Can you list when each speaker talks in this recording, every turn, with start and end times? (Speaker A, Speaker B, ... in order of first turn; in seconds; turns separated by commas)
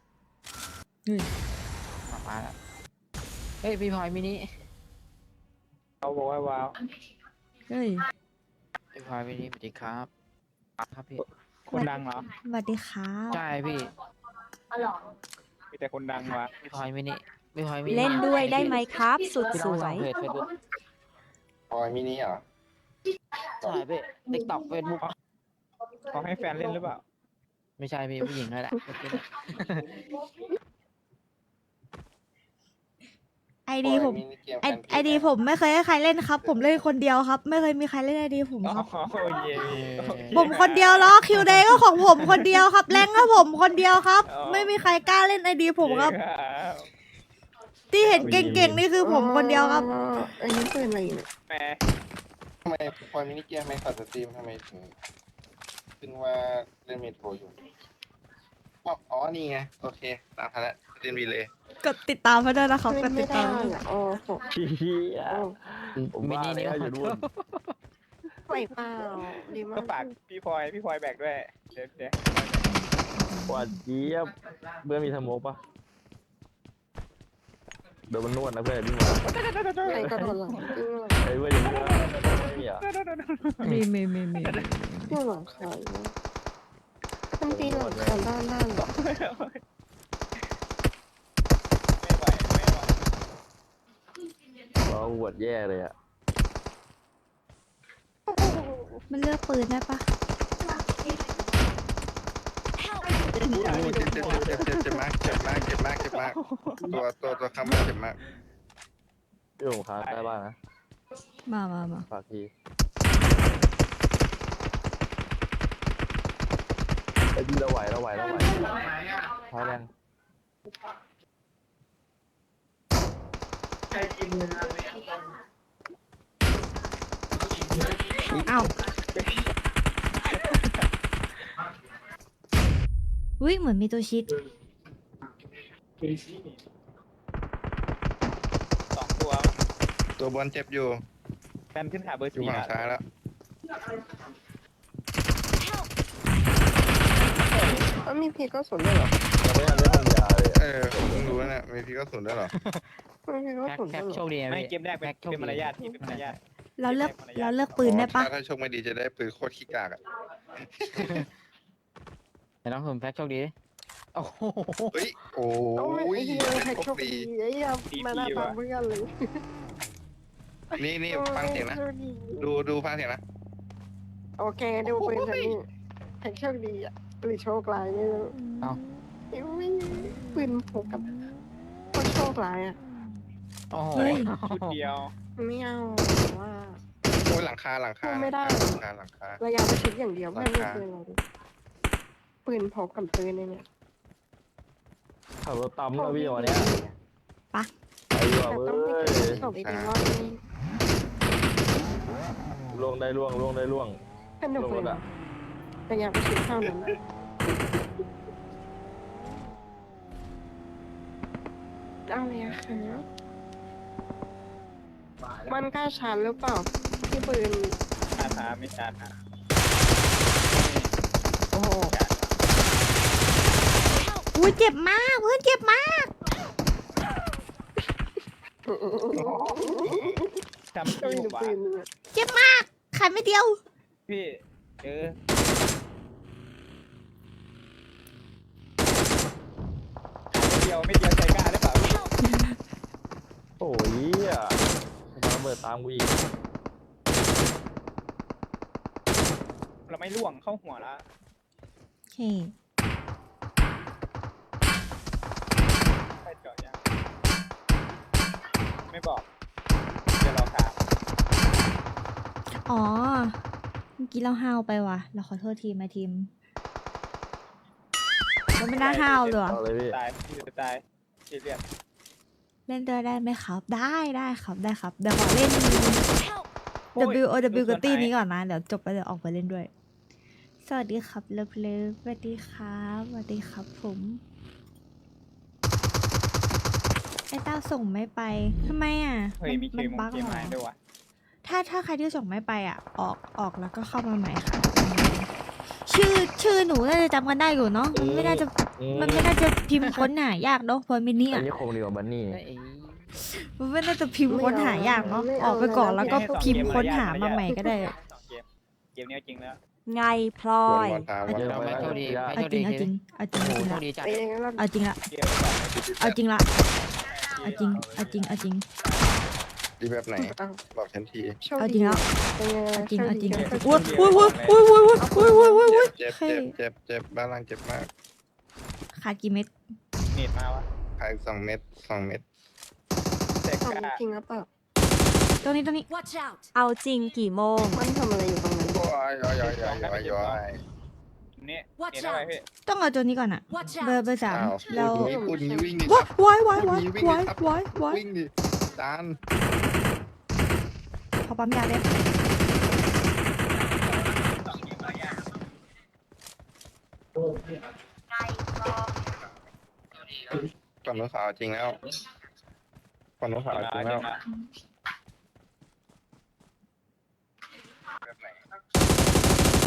Speaker A: 2.1-2.6, Speaker A: 3.6-4.5, Speaker B: 6.0-6.8, Speaker C: 7.7-8.0, Speaker A: 8.9-10.1, Speaker A: 10.8-11.2, Speaker B: 11.7-12.3, Speaker C: 12.4-13.4, Speaker A: 13.3-13.9, Speaker B: 15.7-16.5, Speaker A: 16.2-20.5, Speaker D: 17.9-20.1, Speaker E: 21.7-22.4, Speaker A: 23.6-25.0, Speaker B: 26.1-27.0, Speaker A: 27.8-30.0, Speaker C: 33.7-38.9, Speaker E: 33.8-35.4, Speaker E: 36.4-36.9, Speaker B: 38.6-42.6, Speaker A: 39.5-40.5, Speaker C: 40.3-46.2, Speaker B: 44.3-44.7, Speaker B: 45.8-46.9, Speaker C: 47.9-49.9, Speaker B: 48.0-48.5, Speaker F: 48.2-48.9, Speaker G: 49.0-51.3, Speaker B: 51.5-51.8, Speaker E: 52.6-54.9, Speaker E: 56.0-57.5, Speaker E: 58.9-61.5, Speaker C: 61.8-63.7, Speaker G: 62.9-64.5, Speaker F: 64.5-67.2, Speaker G: 65.3-65.5, Speaker A: 66.0-67.7, Speaker G: 68.5-70.1, Speaker B: 69.7-72.7, Speaker C: 72.7-73.8, Speaker F: 73.5-75.6, Speaker F: 78.1-79.2, Speaker B: 79.3-80.7, Speaker F: 79.9-80.3, Speaker G: 79.9-81.2, Speaker F: 81.2-82.8, Speaker B: 81.6-83.8, Speaker C: 83.6-85.2, Speaker G: 85.1-86.1, Speaker G: 87.4-88.9, Speaker F: 87.5-88.3, Speaker B: 88.8-89.6, Speaker B: 92.0-92.9, Speaker F: 94.9-95.9, Speaker G: 98.3-99.0, Speaker C: 99.1-100.0, Speaker B: 103.3-105.3, Speaker F: 103.5-104.7, Speaker E: 103.8-108.2, Speaker B: 106.0-107.0, Speaker F: 109.6-110.6, Speaker B: 110.0-110.3, Speaker C: 111.5-112.1, Speaker F: 112.1-112.5, Speaker F: 117.4-119.9, Speaker C: 128.4-128.7, Speaker B: 129.1-129.5, Speaker B: 130.2-130.8, Speaker C: 133.4-134.3, Speaker B: 138.9-139.6, Speaker E: 140.2-141.0, Speaker B: 141.7-143.0, Speaker E: 142.3-143.0, Speaker B: 147.4-147.9, Speaker G: 148.0-149.2, Speaker F: 149.4-151.4, Speaker E: 150.6-152.5, Speaker A: 152.5-152.8, Speaker G: 153.3-154.3, Speaker A: 153.7-156.4, Speaker B: 154.5-157.8, Speaker C: 156.8-158.3, Speaker E: 157.8-160.0, Speaker E: 160.8-161.2, Speaker A: 162.7-163.5, Speaker A: 164.2-165.0, Speaker E: 164.9-167.3, Speaker G: 165.8-169.4, Speaker B: 167.9-168.6, Speaker E: 170.8-171.8, Speaker G: 170.8-172.4, Speaker E: 172.4-173.2, Speaker G: 174.4-175.7, Speaker E: 174.8-175.6, Speaker G: 176.2-178.3, Speaker G: 179.3-181.2, Speaker G: 181.9-182.8, Speaker A: 183.7-184.8, Speaker C: 183.9-184.3, Speaker B: 184.3-185.1, Speaker G: 185.4-186.8, Speaker E: 187.2-189.4, Speaker G: 188.0-188.8, Speaker G: 189.4-191.2, Speaker E: 190.3-190.8, Speaker G: 192.4-193.7, Speaker F: 195.4-196.7, Speaker G: 195.9-197.0, Speaker F: 198.1-199.5, Speaker G: 198.5-200.4, Speaker E: 199.5-199.9, Speaker F: 202.7-204.0, Speaker G: 204.4-205.0, Speaker F: 204.6-205.0, Speaker G: 205.9-207.0, Speaker G: 212.1-213.1, Speaker G: 215.5-217.8, Speaker B: 218.1-219.2, Speaker B: 220.5-220.9, Speaker G: 221.5-221.9, Speaker B: 221.8-222.2, Speaker C: 224.3-226.1, Speaker G: 228.7-230.3, Speaker E: 229.1-230.2, Speaker B: 230.7-231.6, Speaker G: 230.9-231.9, Speaker C: 232.1-233.6, Speaker B: 234.1-235.2, Speaker B: 240.3-242.1, Speaker C: 242.3-242.5, Speaker F: 243.6-244.6, Speaker F: 245.2-246.2, Speaker B: 249.9-251.0, Speaker C: 252.1-252.5, Speaker B: 256.2-256.8, Speaker B: 258.9-259.2, Speaker B: 260.2-260.8, Speaker C: 262.7-263.4, Speaker C: 264.0-266.3, Speaker C: 268.6-269.6, Speaker B: 268.7-271.6, Speaker F: 269.4-270.0, Speaker C: 272.7-276.0, Speaker B: 276.9-278.1, Speaker C: 277.0-279.7, Speaker C: 280.6-284.2, Speaker C: 287.3-290.6, Speaker B: 289.4-290.8, Speaker C: 291.4-295.3, Speaker C: 295.9-301.5, Speaker F: 297.9-299.4, Speaker F: 301.3-302.4, Speaker A: 302.3-303.0, Speaker C: 303.2-307.9, Speaker G: 304.3-307.7, Speaker B: 306.0-309.6, Speaker D: 309.9-311.1, Speaker E: 310.6-312.0, Speaker F: 311.3-312.4, Speaker A: 311.3-314.2, Speaker C: 312.3-313.9, Speaker G: 314.0-314.6, Speaker C: 314.6-315.0, Speaker B: 315.1-315.8, Speaker E: 315.7-316.2, Speaker C: 316.0-316.5, Speaker B: 316.9-318.3, Speaker C: 317.4-318.6, Speaker B: 318.8-319.2, Speaker E: 319.8-321.4, Speaker G: 320.2-320.6, Speaker G: 321.4-324.3, Speaker C: 321.6-322.0, Speaker C: 322.7-326.5, Speaker B: 323.3-324.6, Speaker G: 325.0-325.8, Speaker E: 325.6-327.9, Speaker C: 329.0-329.5, Speaker B: 330.1-330.7, Speaker E: 331.0-332.2, Speaker B: 333.4-334.0, Speaker G: 333.6-334.5, Speaker C: 335.4-335.9, Speaker D: 336.6-337.9, Speaker G: 337.6-338.8, Speaker E: 338.7-340.6, Speaker B: 339.4-340.4, Speaker B: 341.4-342.4, Speaker C: 342.7-345.1, Speaker E: 344.3-349.2, Speaker G: 344.9-345.9, Speaker C: 345.9-348.0, Speaker C: 351.2-352.0, Speaker E: 360.1-361.8, Speaker E: 363.2-364.1, Speaker B: 363.5-364.2, Speaker E: 368.1-368.3